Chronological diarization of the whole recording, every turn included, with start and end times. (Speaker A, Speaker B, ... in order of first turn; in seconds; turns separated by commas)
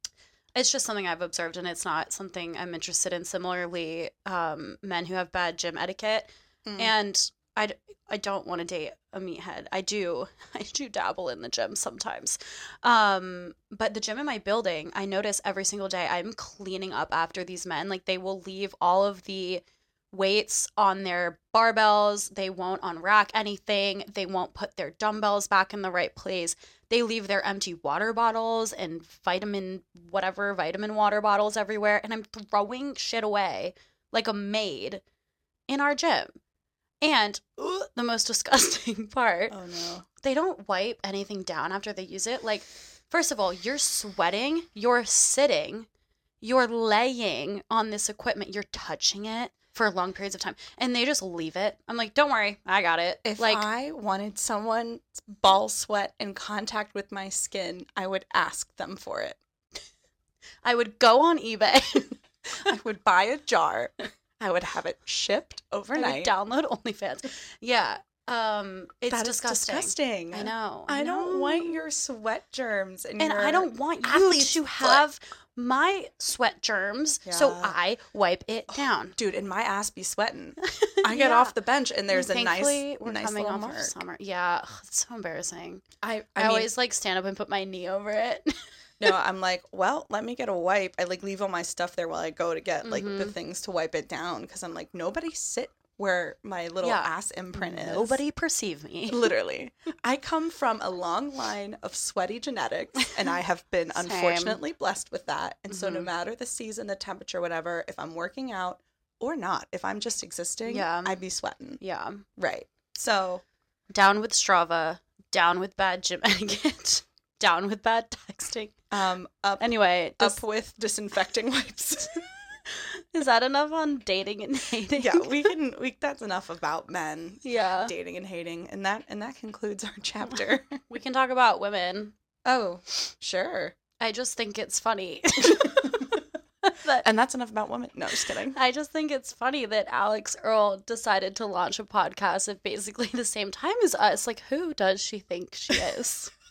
Speaker A: 0.5-35.0, Speaker B: 6.6-6.9, Speaker A: 35.7-36.4, Speaker A: 37.0-39.6, Speaker B: 39.5-40.0, Speaker A: 40.2-45.9, Speaker A: 46.4-53.6, Speaker B: 53.2-59.4, Speaker A: 60.6-62.2, Speaker B: 62.6-66.3, Speaker A: 65.9-71.8, Speaker B: 69.1-75.0, Speaker A: 73.2-79.2, Speaker B: 77.2-77.8, Speaker B: 78.7-84.0, Speaker A: 80.6-81.5, Speaker A: 82.1-88.5, Speaker B: 86.0-86.7, Speaker B: 89.0-98.2, Speaker A: 92.8-93.3, Speaker A: 96.8-99.3, Speaker B: 99.1-111.8, Speaker A: 103.9-104.6, Speaker A: 105.7-106.1, Speaker A: 110.7-111.2, Speaker A: 111.8-112.2, Speaker B: 112.3-113.4, Speaker A: 113.9-118.7, Speaker B: 118.9-122.3, Speaker A: 119.6-120.4, Speaker A: 122.7-125.5, Speaker B: 125.0-130.8, Speaker A: 127.4-127.9, Speaker A: 130.9-132.1, Speaker B: 132.4-133.8, Speaker A: 134.0-137.0, Speaker B: 135.6-135.9, Speaker B: 137.0-138.6, Speaker A: 138.5-146.3